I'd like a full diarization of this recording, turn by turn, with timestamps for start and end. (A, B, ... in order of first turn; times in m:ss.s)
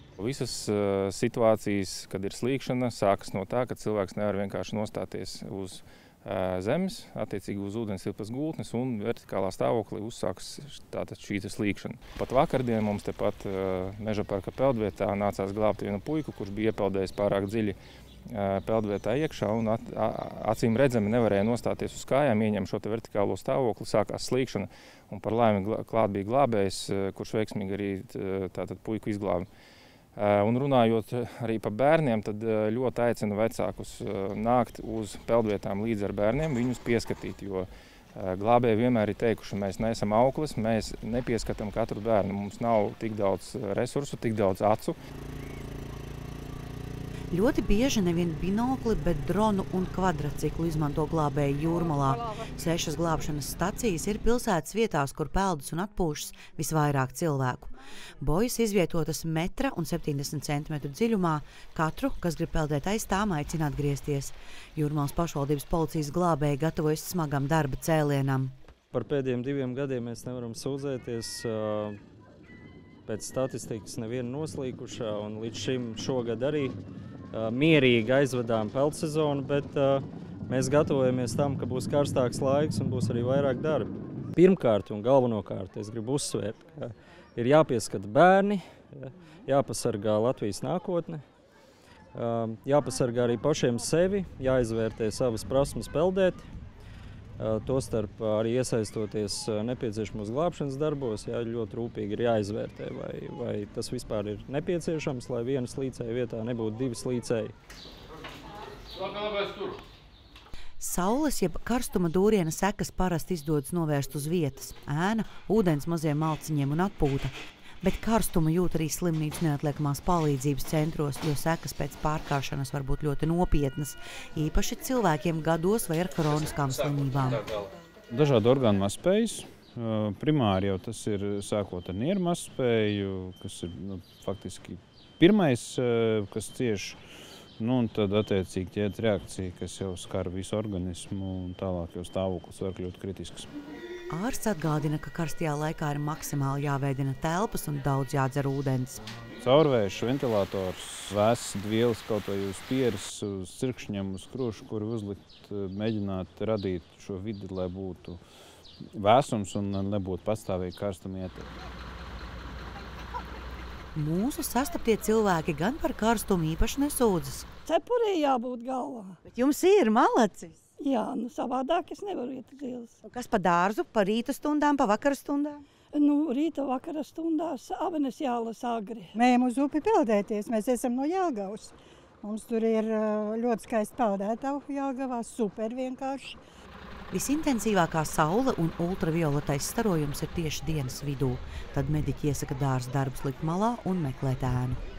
0:00.2-0:17.8 A
0:18.3-0:29.4 A
0:30.2-0:45.0 A
0:47.3-0:57.7 B
0:58.2-1:08.5 B
1:08.9-1:12.0 C
1:13.0-1:16.8 C
1:17.3-1:31.2 C
1:32.1-1:36.5 C
1:37.4-1:47.6 C
1:50.8-2:07.4 B
2:08.1-2:17.0 D
2:17.6-2:23.5 D
2:24.1-2:29.0 B
2:29.4-2:38.2 D
2:38.9-2:41.5 D
2:43.9-2:47.5 B
2:47.6-2:49.2 E
2:49.2-2:50.5 B
2:50.8-2:53.0 E
2:53.1-2:55.6 B
2:55.9-2:59.1 E
2:59.2-3:06.4 F
3:07.1-3:14.8 B